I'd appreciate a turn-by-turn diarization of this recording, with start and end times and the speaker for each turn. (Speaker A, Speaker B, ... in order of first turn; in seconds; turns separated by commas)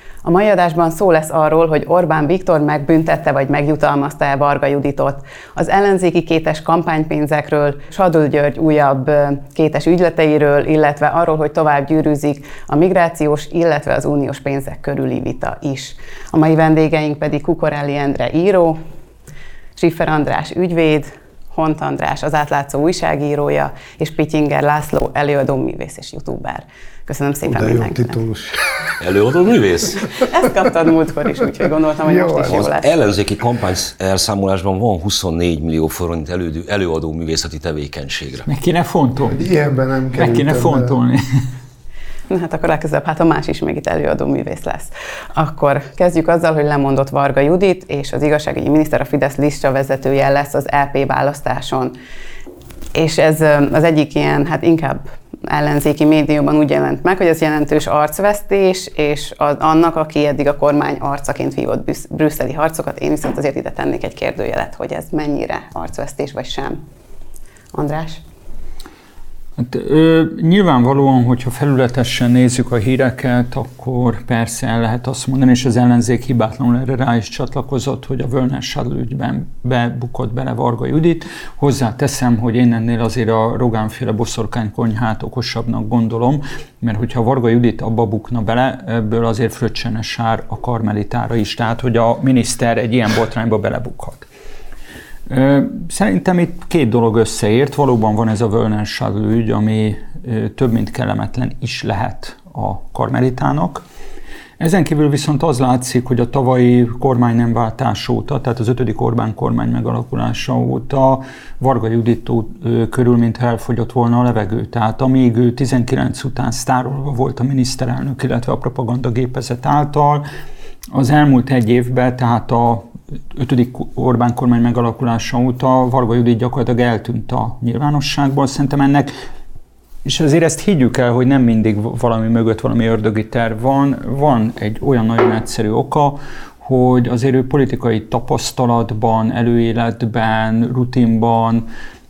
Speaker A: 0.2-18.8, Speaker A: 19.8-28.2, Speaker B: 27.5-28.6, Speaker C: 29.0-30.2, Speaker A: 30.2-32.9, Speaker B: 32.0-32.7, Speaker C: 32.5-38.5, Speaker D: 38.5-39.5, Speaker B: 39.3-41.0, Speaker D: 40.2-41.2, Speaker A: 42.3-51.9, Speaker A: 53.0-66.8, Speaker A: 67.7-68.2, Speaker D: 69.6-94.3, Speaker D: 95.3-103.8, Speaker D: 104.6-120.2, Speaker D: 120.9-129.1, Speaker D: 130.1-141.7